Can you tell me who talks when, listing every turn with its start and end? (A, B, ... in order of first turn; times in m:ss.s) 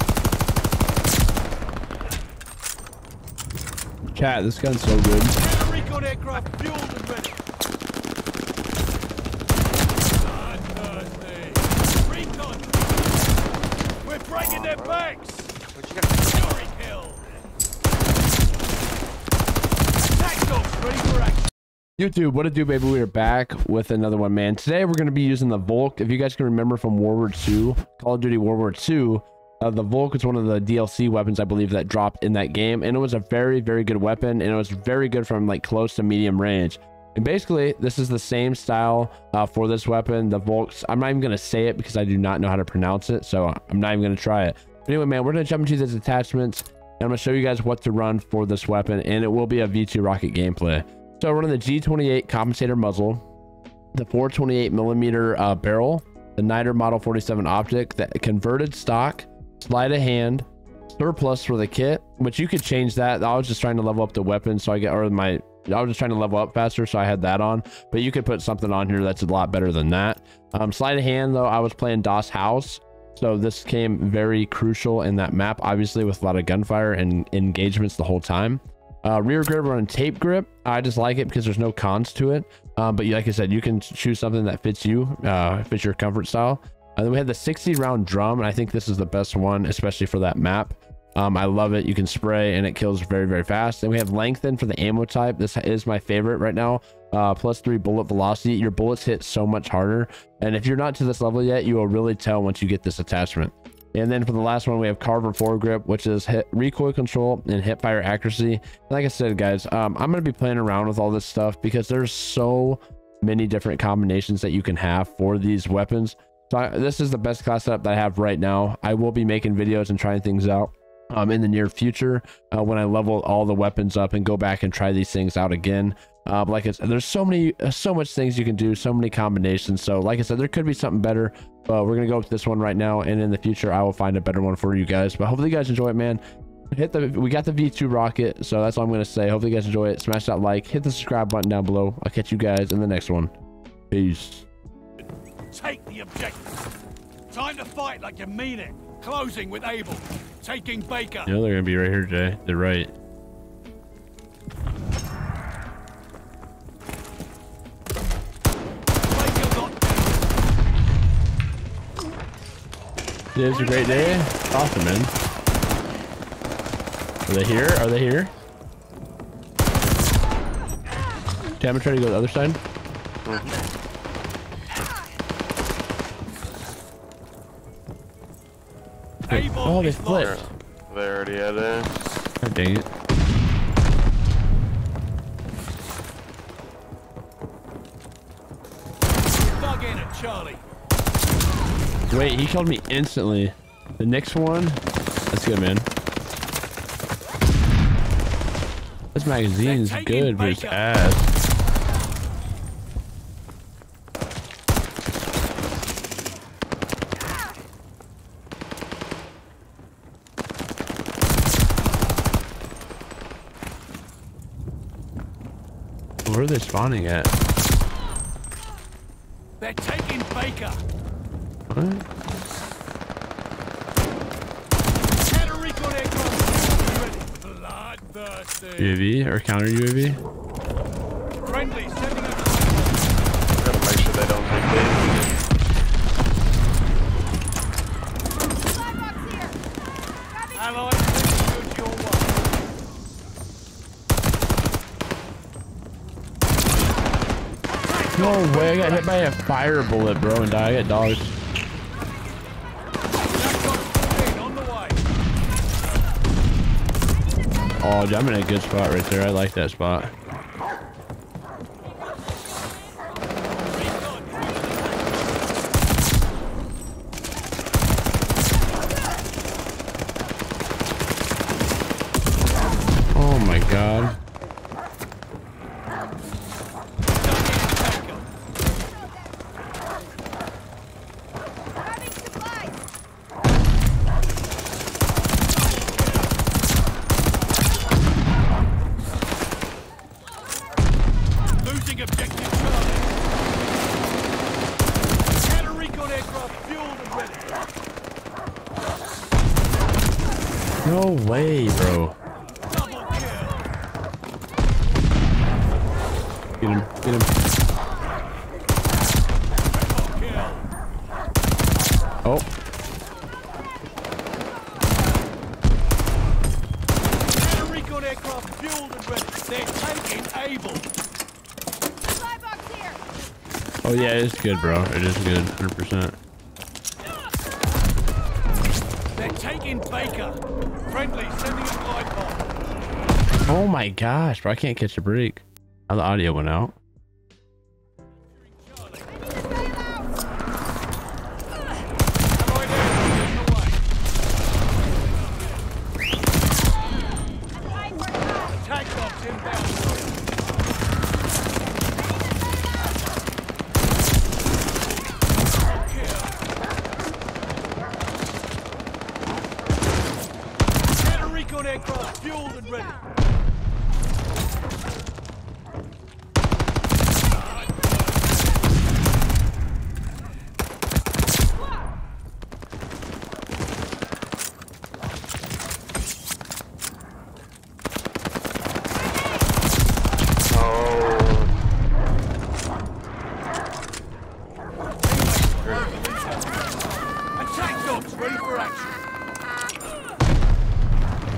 0:04.1-0:05.4 A
0:05.3-0:07.4 B
0:10.1-0:13.1 B
0:14.0-0:15.5 B
0:14.6-0:15.0 C
0:16.2-0:17.3 B
0:20.1-0:21.4 B
0:22.0-0:53.2 A
0:53.9-2:23.3 A
2:23.9-2:24.5 A
2:25.5-2:26.6 B
2:27.3-2:31.3 B
2:31.3-2:32.9 A
2:39.1-2:40.3 B
2:43.4-2:45.1 A
2:43.4-2:44.2 B
2:47.3-2:48.3 A
2:51.6-2:52.6 A
2:53.2-2:53.5 C
2:59.3-3:00.4 B
2:59.3-3:00.5 A
3:00.2-3:01.9 C
3:02.4-3:02.9 A
3:09.4-3:10.6 B
3:12.1-3:15.9 A
3:19.2-3:21.3 A
3:19.6-3:20.9 B
3:36.3-3:37.3 A
3:39.6-3:40.8 B
3:41.7-3:42.1 A
3:45.2-3:49.0 B
3:48.8-3:50.2 A
3:51.4-3:53.1 B
3:53.6-3:55.3 C
4:00.5-4:02.4 B
4:07.8-4:09.1 B
4:08.1-4:11.4 A
4:13.3-4:15.0 B
4:17.8-4:20.1 A
4:23.7-4:24.7 B
4:33.1-4:34.2 A
4:37.2-4:38.3 B
4:51.6-4:53.1 B
4:55.3-4:57.6 B
5:00.8-5:02.2 A
5:02.6-5:03.7 B
5:06.6-5:07.3 A
5:09.7-5:10.6 B
5:17.3-5:20.9 B
5:23.8-5:26.2 A
5:29.2-5:32.5 B
5:33.5-5:36.8 A
5:38.4-5:39.1 B
5:42.4-5:43.8 B
5:48.4-5:50.2 B
5:55.7-5:56.3 B
6:01.0-6:03.0 B
6:20.5-6:21.5 C
6:25.0-6:29.0 B